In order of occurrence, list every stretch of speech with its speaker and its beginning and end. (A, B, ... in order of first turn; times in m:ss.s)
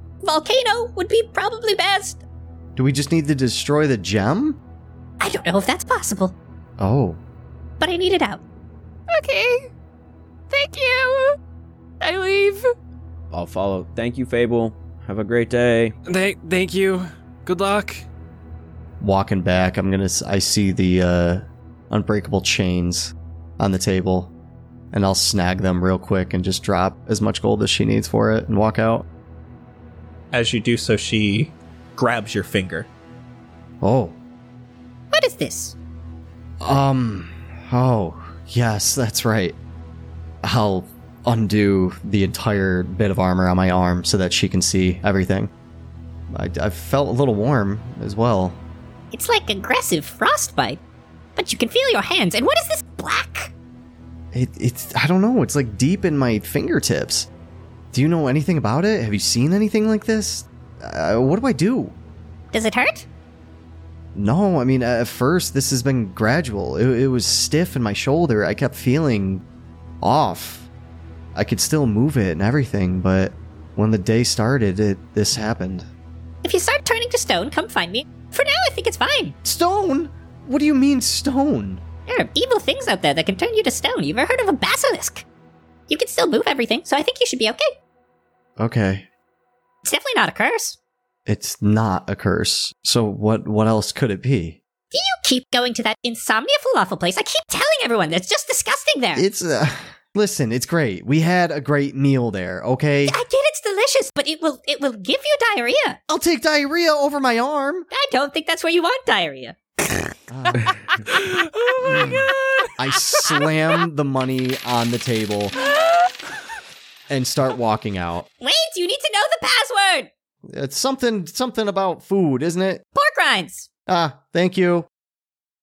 0:00.2-0:02.2 A
0:02.8-0:04.6 B
0:05.2-0:06.3 A
0:06.8-0:07.2 B
0:07.8-0:08.4 A
0:09.1-0:09.7 C
0:10.5-0:11.4 C
0:12.0-0:12.7 C
0:13.3-0:15.9 D
0:16.1-0:18.0 E
0:19.0-0:24.3 B
0:24.9-0:29.0 B
0:30.3-0:32.9 F
0:33.8-0:34.2 B
0:35.1-0:35.7 A
0:36.6-0:39.6 B
0:40.4-0:45.5 B
0:46.3-0:48.6 B
0:49.1-0:50.8 A
0:51.4-0:53.5 A
0:54.3-0:57.3 B
0:57.9-1:01.9 B
1:02.5-1:03.0 A
1:04.1-1:09.4 B
1:10.0-1:10.7 B
1:11.3-1:15.9 B
1:16.4-1:19.4 A
1:19.4-1:21.8 B
1:22.1-1:25.2 A
1:25.9-1:27.7 A
1:28.6-1:29.0 B
1:29.8-1:30.8 A
1:31.2-1:34.6 B
1:34.9-1:39.2 A
1:39.1-1:43.2 B
1:43.0-1:46.0 A
1:46.1-1:47.9 B
1:47.9-1:49.6 A
1:50.3-1:51.0 B
1:51.3-1:52.3 E
1:52.8-1:55.6 B
1:57.1-1:58.3 B
1:58.4-2:00.1 A
2:00.4-2:02.8 B
2:02.9-2:03.7 A
2:03.9-2:04.9 B